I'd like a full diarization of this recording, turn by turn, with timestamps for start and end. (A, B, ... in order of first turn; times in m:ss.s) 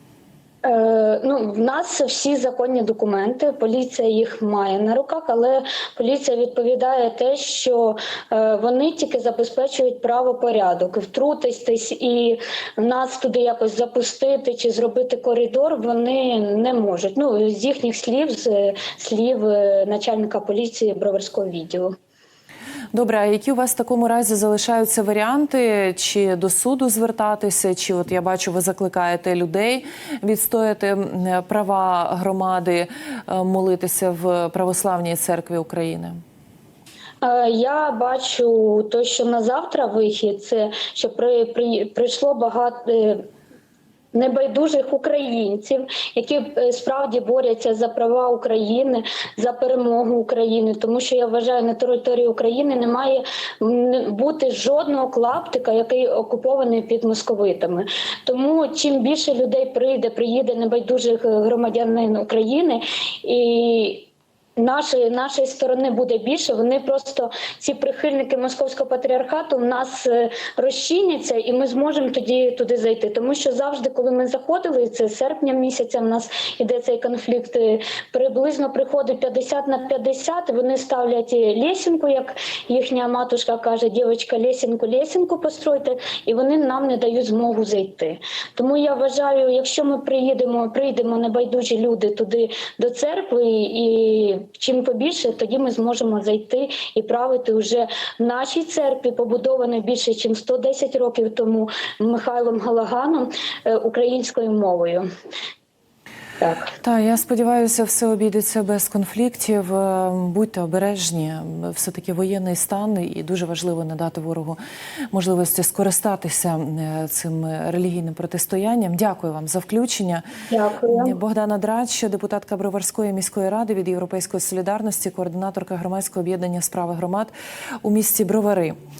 0:00.6-0:21.9 A
0:22.9-0:36.2 B
0:37.2-0:43.2 A
0:44.1-1:45.0 A
1:46.4-1:46.7 A
1:46.8-1:54.6 B
1:55.1-2:00.2 B
2:00.5-2:01.2 A
2:00.9-2:07.3 B
2:07.8-2:08.8 B